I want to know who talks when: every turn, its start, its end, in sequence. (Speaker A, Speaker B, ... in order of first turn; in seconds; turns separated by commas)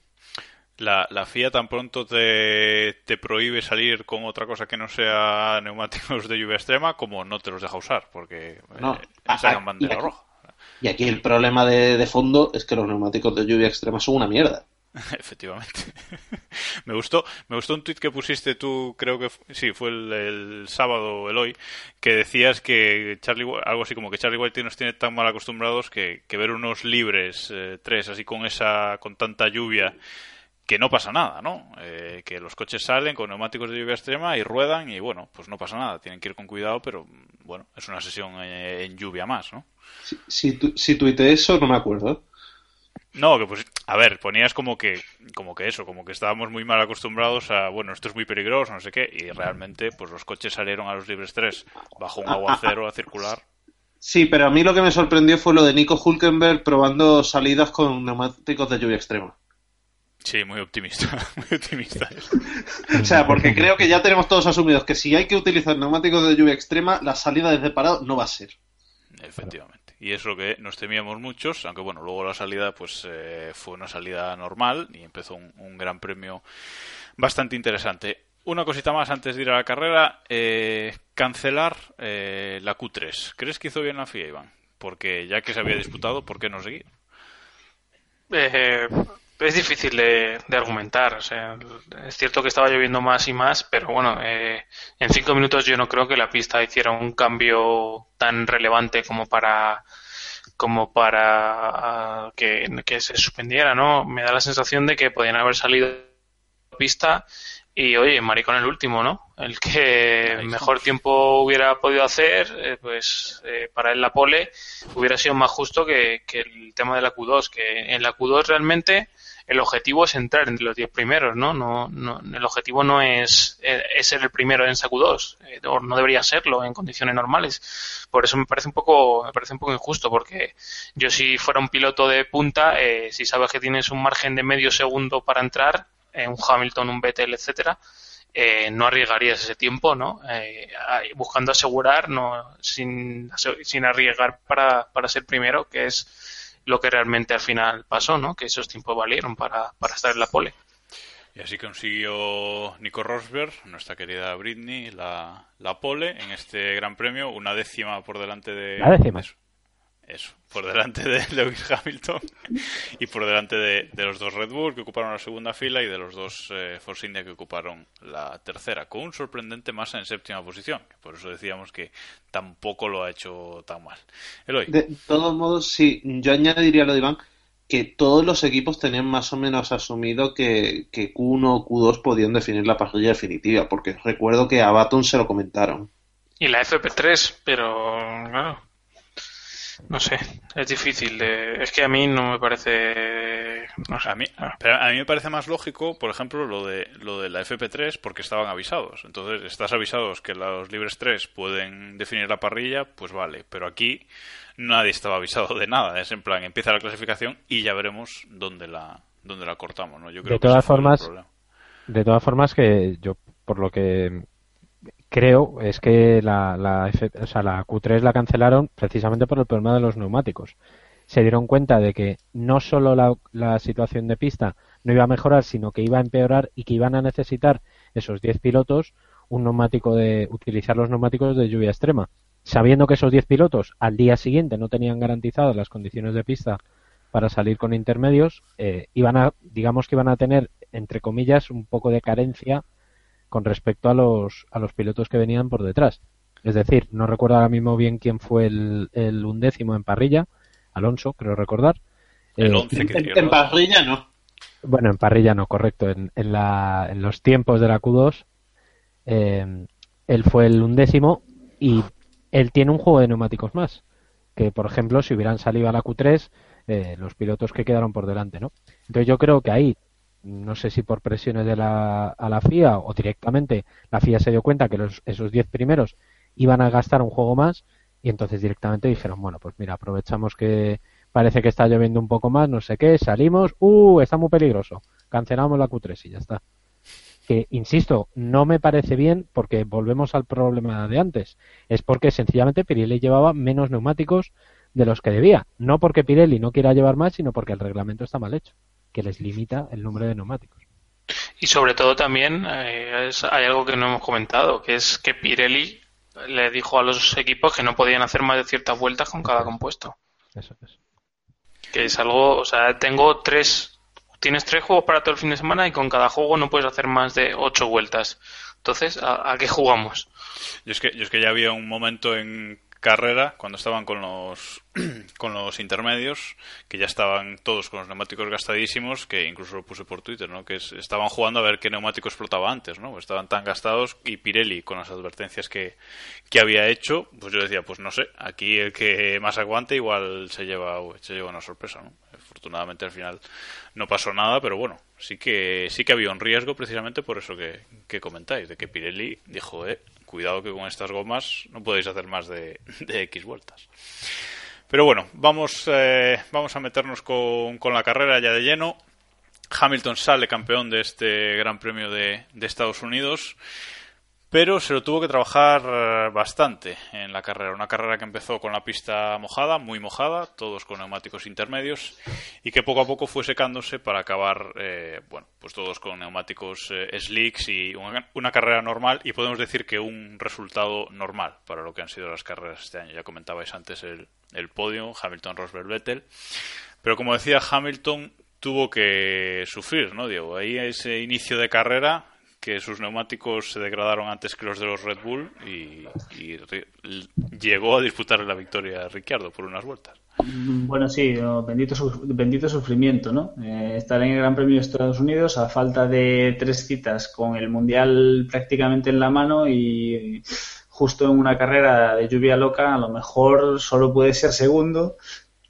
Speaker A: 0.8-10.3, Speaker B: 8.8-10.1, Speaker B: 10.8-14.6, Speaker A: 15.1-16.0, Speaker A: 16.5-30.0, Speaker A: 30.6-39.7, Speaker B: 40.1-42.2, Speaker A: 43.1-53.4, Speaker B: 52.3-52.7, Speaker B: 54.0-59.4, Speaker A: 60.2-62.5, Speaker B: 62.9-68.5, Speaker C: 63.0-63.7, Speaker A: 69.2-76.4, Speaker A: 77.2-86.9, Speaker D: 88.3-99.8, Speaker D: 100.6-106.1, Speaker D: 106.7-137.8, Speaker A: 110.2-110.8, Speaker D: 138.3-150.5, Speaker A: 151.4-159.3, Speaker C: 158.8-159.2, Speaker A: 160.1-174.7, Speaker B: 174.7-185.9, Speaker D: 186.4-188.6, Speaker D: 189.9-194.5, Speaker A: 194.0-204.1, Speaker A: 204.6-211.2, Speaker C: 210.2-211.1, Speaker C: 211.9-214.2, Speaker C: 215.1-220.6, Speaker C: 221.1-236.6, Speaker C: 237.1-242.6, Speaker C: 243.3-251.8, Speaker C: 252.4-252.8, Speaker A: 252.4-253.6, Speaker B: 252.7-254.0, Speaker C: 254.6-258.2, Speaker C: 259.1-263.8, Speaker C: 264.4-286.4, Speaker C: 287.3-300.6, Speaker D: 301.4-309.9, Speaker C: 309.2-309.5, Speaker C: 310.4-310.7, Speaker D: 311.7-320.1, Speaker A: 320.7-335.8, Speaker A: 336.3-343.2, Speaker A: 343.8-354.1, Speaker A: 354.7-358.8, Speaker A: 359.5-363.4, Speaker A: 364.3-386.1, Speaker A: 386.8-400.0, Speaker E: 400.2-415.0